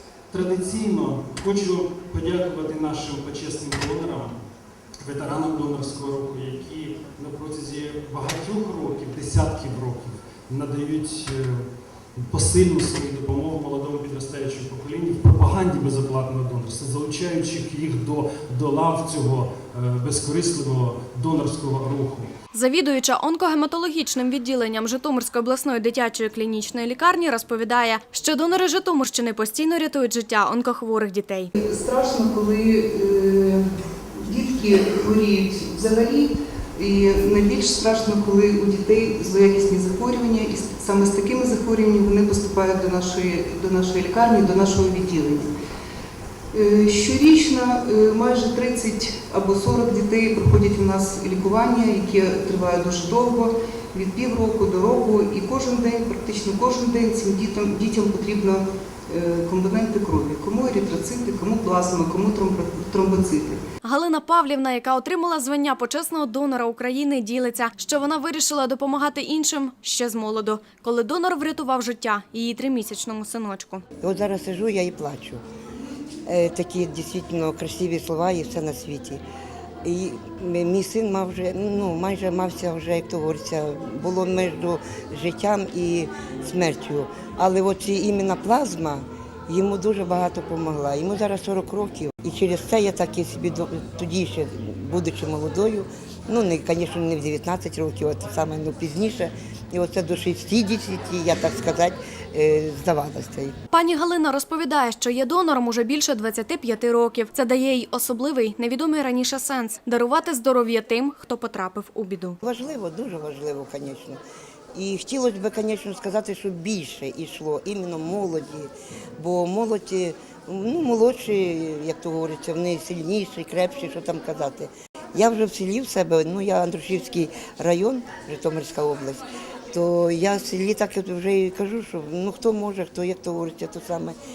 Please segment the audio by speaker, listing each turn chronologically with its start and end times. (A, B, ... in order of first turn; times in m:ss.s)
0:00.3-0:04.4 A
0:05.0-0:22.3 A
0:22.5-0:31.5 B
0:31.6-0:33.6 C
0:34.2-0:45.5 C
0:46.5-1:03.6 C
1:03.8-1:13.8 B
1:14.0-1:15.4 D
1:16.2-1:19.2 D
1:19.8-1:43.6 D
1:43.7-1:52.4 B
1:52.4-1:54.2 D
1:54.7-2:14.2 D